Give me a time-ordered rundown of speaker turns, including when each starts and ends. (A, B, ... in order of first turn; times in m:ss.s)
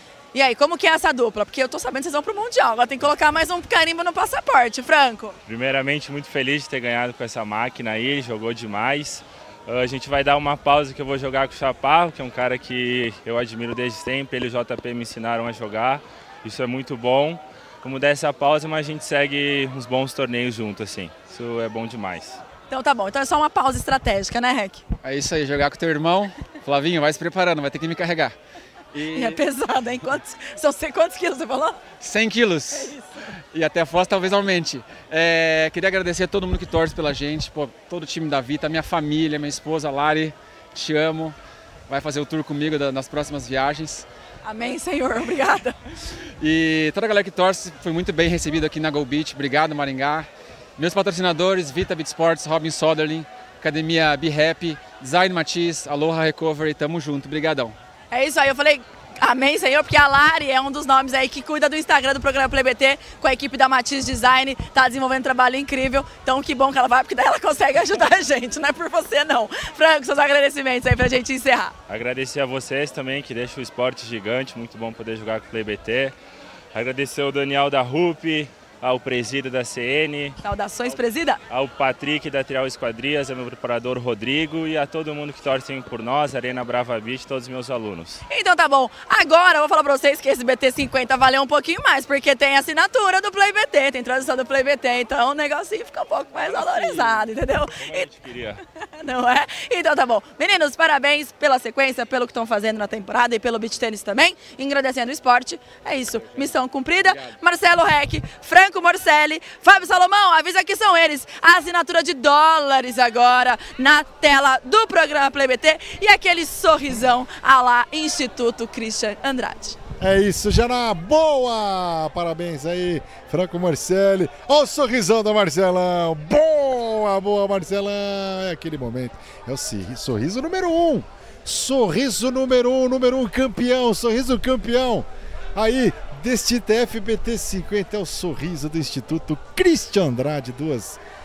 0:00.3-0:05.4 A
0:05.4-0:22.4 B
0:22.7-0:24.8 A
0:25.0-0:28.3 C
0:28.9-0:29.4 B
0:29.1-0:31.8 A
0:32.0-0:33.0 C
0:32.7-0:33.1 A
0:33.5-0:41.4 C
0:41.9-0:44.1 C
0:44.4-0:45.8 A
0:46.4-0:57.8 C
0:58.1-1:11.7 A
1:11.9-1:16.1 B
1:16.7-1:20.4 B
1:20.4-1:21.4 A
1:21.5-1:28.2 B
1:28.3-1:38.1 A
1:36.4-1:38.6 B
1:39.0-1:59.8 A
1:47.0-1:47.3 B
2:00.0-2:21.0 D